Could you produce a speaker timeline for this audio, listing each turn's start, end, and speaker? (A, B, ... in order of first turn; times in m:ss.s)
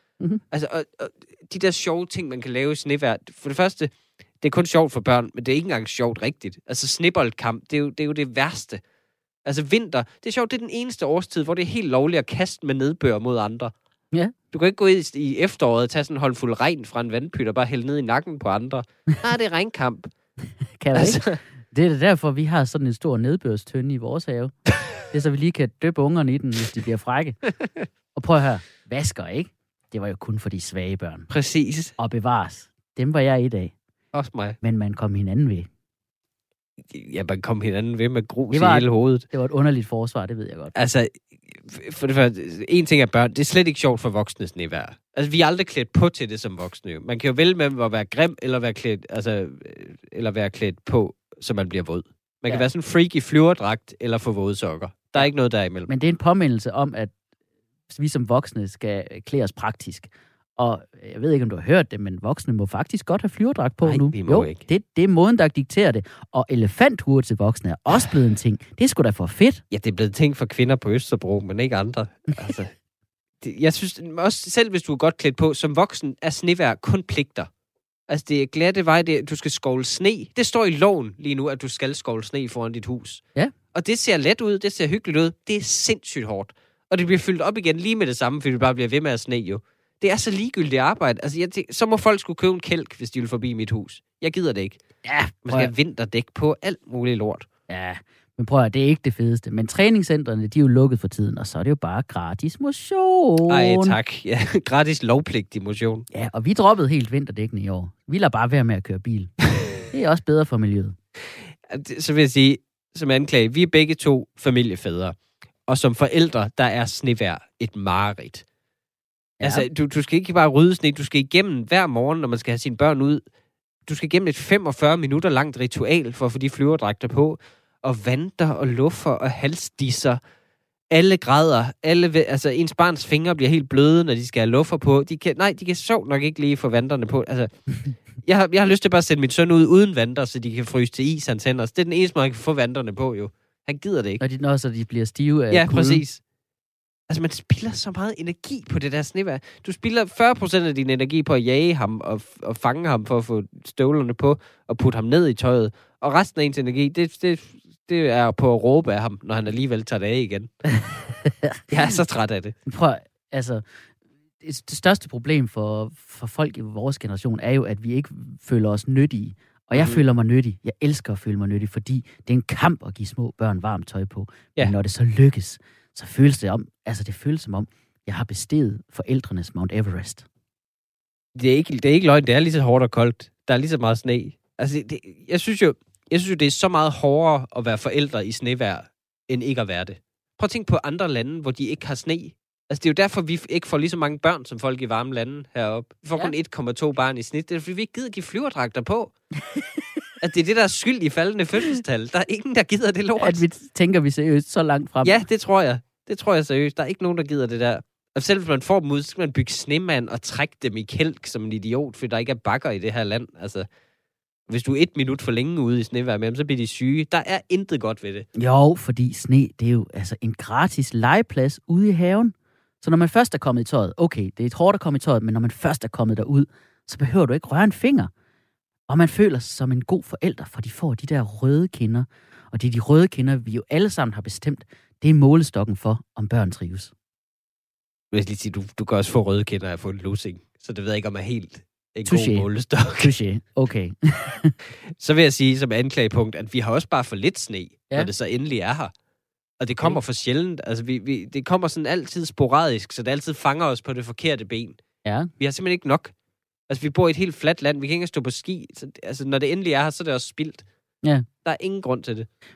0:00.5-0:08.8 A
0:09.4-0:13.7 A
0:14.5-0:20.1 A
0:20.8-0:27.4 B
0:20.9-0:21.4 A
0:28.1-0:31.3 B
0:31.3-0:31.9 A
0:32.0-0:33.7 B
0:34.1-0:34.6 A
0:34.6-0:35.7 B
0:36.8-0:39.2 A
0:38.5-0:40.7 B
0:40.7-0:55.9 A
0:55.9-0:57.1 B
0:57.9-1:09.6 B
1:03.8-1:04.6 A
1:09.7-1:12.7 A
1:13.4-1:17.5 A
1:18.1-1:34.8 A
1:35.0-1:35.7 B
1:35.4-1:37.5 A
1:37.7-1:44.0 B
1:43.5-1:46.1 A
1:46.1-1:51.0 B
1:51.4-1:58.4 A
1:59.4-1:59.7 B
1:59.4-2:03.2 A
2:03.8-2:10.2 A
2:10.9-2:17.6 A
2:18.2-2:24.2 A
2:24.2-2:26.0 B
2:25.5-2:26.2 A
2:27.1-2:40.5 A
2:41.3-2:41.6 B
2:41.7-2:42.5 A
2:42.6-2:43.6 B
2:44.4-3:00.2 B
2:49.7-2:50.0 A
3:01.3-3:19.1 A
3:20.2-3:23.4 A
3:23.2-3:25.3 B
3:25.0-3:33.7 A
3:34.5-3:38.3 A
3:38.4-3:48.1 B
3:48.9-3:56.9 B
3:58.1-4:03.1 A
4:02.0-4:04.5 B
4:04.9-4:08.9 A
4:09.6-4:14.8 A
4:15.0-4:15.3 B
4:15.4-4:16.1 A
4:16.7-4:20.6 A
4:21.4-4:22.3 A